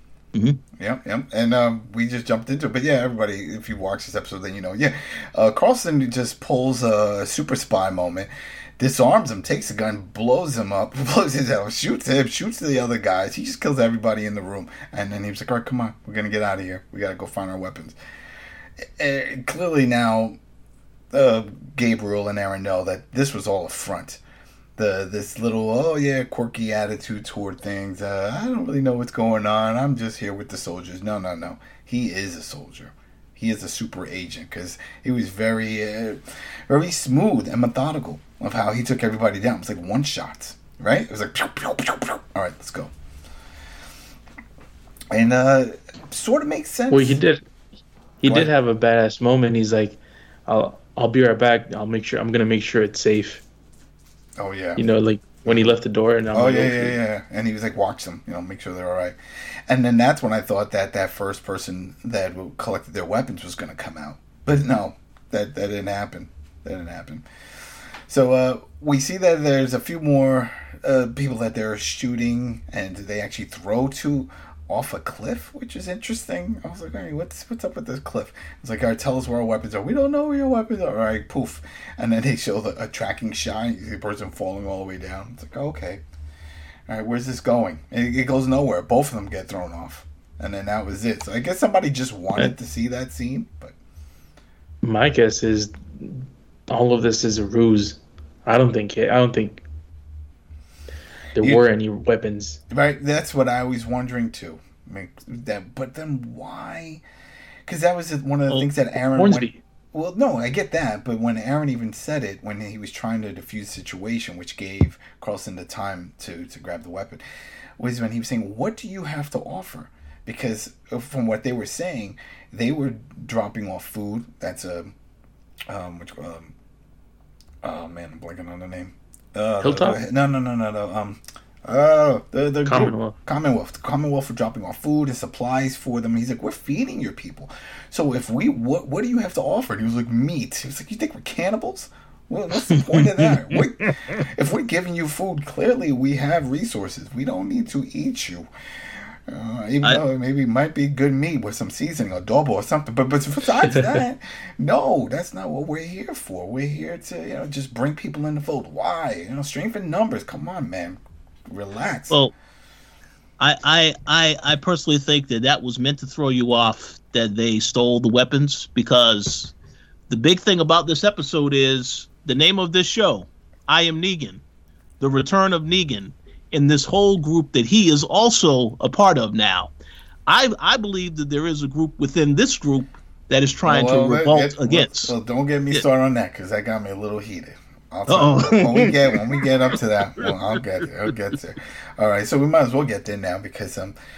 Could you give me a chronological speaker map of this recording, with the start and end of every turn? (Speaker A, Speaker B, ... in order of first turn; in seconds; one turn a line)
Speaker A: 0.3-0.6
Speaker B: 0.8-18.0
Speaker B: 18.8-20.4
Speaker B: 21.1-24.2
Speaker B: 24.8-42.9
Speaker B: 45.1-47.2
Speaker C: 46.9-47.4
Speaker C: 48.2-53.4
Speaker B: 48.2-48.5
Speaker B: 54.4-54.8
Speaker C: 54.8-57.0
Speaker B: 55.5-55.7
Speaker B: 56.3-59.2
Speaker B: 59.7-67.2
Speaker B: 68.1-86.0
Speaker B: 86.9-93.8
Speaker C: 94.8-99.6
Speaker C: 101.4-102.6
Speaker B: 102.7-107.0
Speaker B: 107.7-117.2
Speaker C: 109.1-109.6
Speaker B: 117.8-124.9
Speaker B: 125.7-126.5
Speaker B: 127.6-148.5
Speaker C: 129.6-130.0
Speaker C: 132.7-133.2
Speaker A: 142.7-144.2
Speaker B: 149.3-162.2
Speaker A: 163.4-169.5
Speaker A: 170.1-174.4
Speaker A: 175.0-179.7
Speaker A: 180.3-185.1
Speaker B: 183.6-194.0
Speaker A: 188.1-190.3